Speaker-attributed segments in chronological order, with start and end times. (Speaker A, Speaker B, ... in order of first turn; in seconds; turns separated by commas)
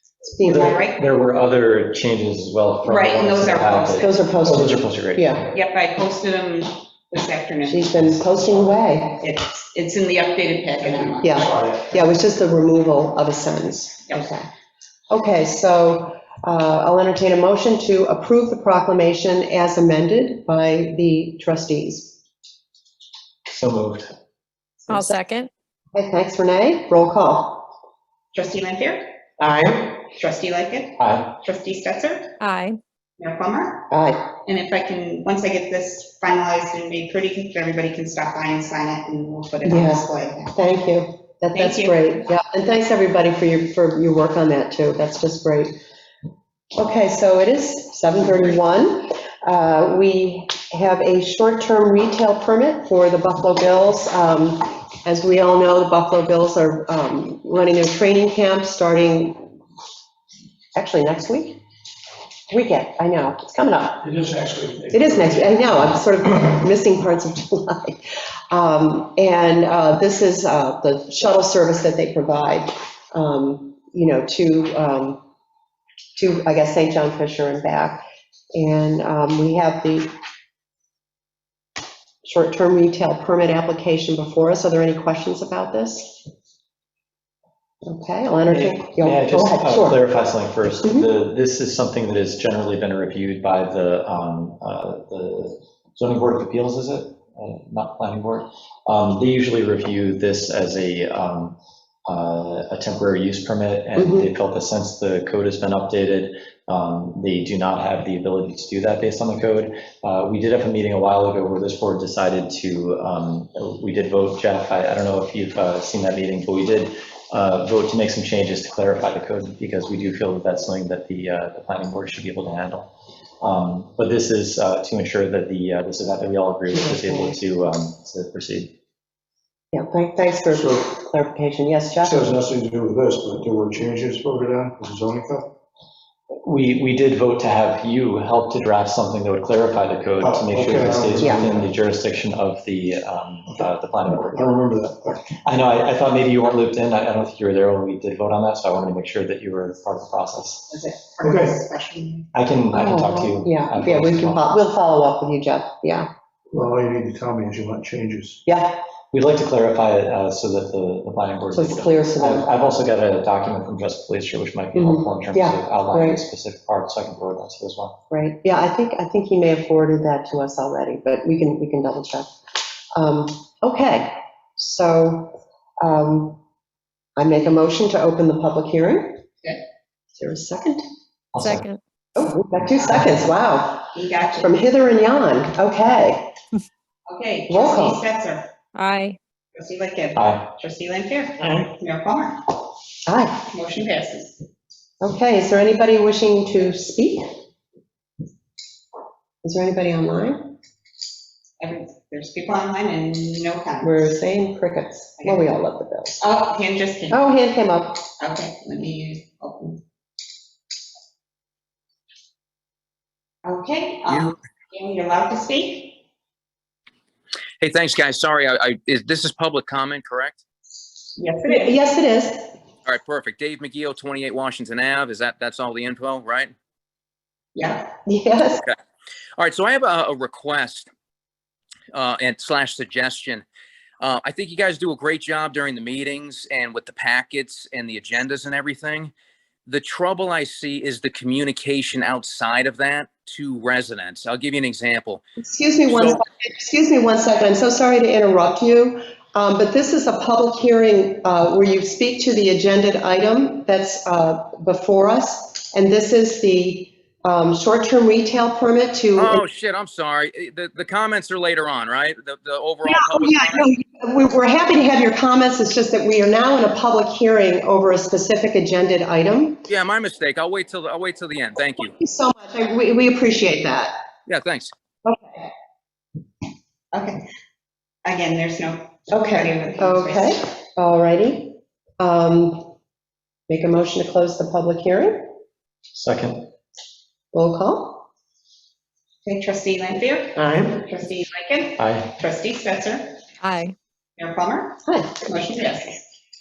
Speaker A: 0.2-0.8, Speaker B: 0.4-1.0, Speaker C: 0.5-5.5, Speaker B: 2.8-4.1, Speaker A: 4.0-5.5, Speaker B: 5.5-8.0, Speaker A: 7.6-9.2, Speaker D: 8.2-8.7, Speaker B: 9.2-11.4, Speaker D: 10.8-12.0, Speaker A: 11.2-14.5, Speaker A: 15.1-22.2, Speaker C: 23.5-24.1, Speaker E: 24.9-25.5, Speaker A: 25.9-27.7, Speaker B: 28.3-29.1, Speaker A: 29.4-29.9, Speaker B: 30.0-32.3, Speaker C: 31.0-31.4, Speaker E: 32.4-32.8, Speaker B: 33.2-33.9, Speaker A: 33.9-34.3, Speaker B: 34.5-40.5, Speaker A: 39.6-45.7, Speaker B: 41.5-42.1, Speaker A: 46.7-59.4, Speaker A: 60.7-61.6, Speaker A: 62.5-64.1, Speaker D: 64.0-66.0, Speaker A: 64.9-68.0, Speaker A: 68.5-75.2, Speaker A: 76.2-78.0, Speaker A: 78.5-80.1, Speaker A: 82.2-86.3, Speaker A: 87.8-90.0, Speaker C: 88.5-128.8, Speaker A: 90.8-91.1, Speaker A: 104.0-104.3, Speaker A: 126.7-127.4, Speaker A: 129.7-132.3, Speaker D: 130.5-130.9, Speaker D: 132.0-135.5, Speaker C: 136.4-144.5, Speaker D: 140.2-141.7, Speaker D: 144.3-145.3, Speaker C: 145.4-150.7, Speaker B: 150.7-152.3, Speaker D: 151.2-151.6, Speaker C: 152.3-154.5, Speaker A: 152.7-156.1, Speaker D: 156.5-158.4, Speaker A: 158.5-158.8, Speaker C: 159.1-167.9, Speaker A: 161.5-162.5, Speaker A: 164.8-166.2, Speaker A: 168.1-172.3, Speaker A: 172.9-176.4, Speaker A: 177.2-179.2, Speaker A: 180.2-180.8, Speaker C: 181.3-181.7, Speaker E: 181.4-181.8, Speaker A: 182.2-186.3, Speaker B: 183.9-184.6, Speaker B: 187.1-188.5, Speaker A: 187.5-188.0, Speaker E: 188.8-189.2, Speaker B: 189.5-192.4, Speaker C: 190.2-190.5, Speaker A: 193.1-193.5, Speaker B: 193.5-194.4, Speaker A: 195.0-197.3, Speaker A: 199.4-200.5, Speaker B: 201.6-204.2, Speaker A: 203.8-206.2, Speaker B: 205.2-205.5, Speaker B: 206.2-207.3, Speaker A: 207.1-208.1, Speaker B: 208.2-209.8, Speaker B: 213.4-216.0, Speaker F: 214.1-214.3, Speaker F: 217.6-220.4, Speaker B: 221.2-221.8, Speaker A: 221.5-222.5, Speaker F: 222.9-226.5, Speaker B: 227.6-227.9, Speaker A: 228.1-228.7, Speaker F: 228.5-228.8, Speaker F: 229.4-230.9, Speaker F: 231.9-233.4, Speaker F: 234.0-239.1, Speaker F: 239.7-245.2, Speaker A: 245.4-259.4, Speaker F: 245.9-246.2, Speaker F: 259.1-263.7, Speaker A: 262.8-269.6, Speaker F: 269.7-271.9, Speaker A: 271.7-273.9, Speaker F: 274.3-274.7, Speaker A: 275.0-275.5, Speaker B: 276.9-277.2, Speaker B: 278.0-280.4, Speaker A: 279.1-282.7, Speaker A: 283.5-285.3, Speaker C: 285.9-286.5, Speaker A: 287.3-288.0, Speaker B: 289.2-293.2, Speaker A: 290.4-290.8, Speaker C: 291.8-292.1, Speaker E: 293.4-293.7, Speaker B: 294.2-296.0, Speaker A: 294.9-295.1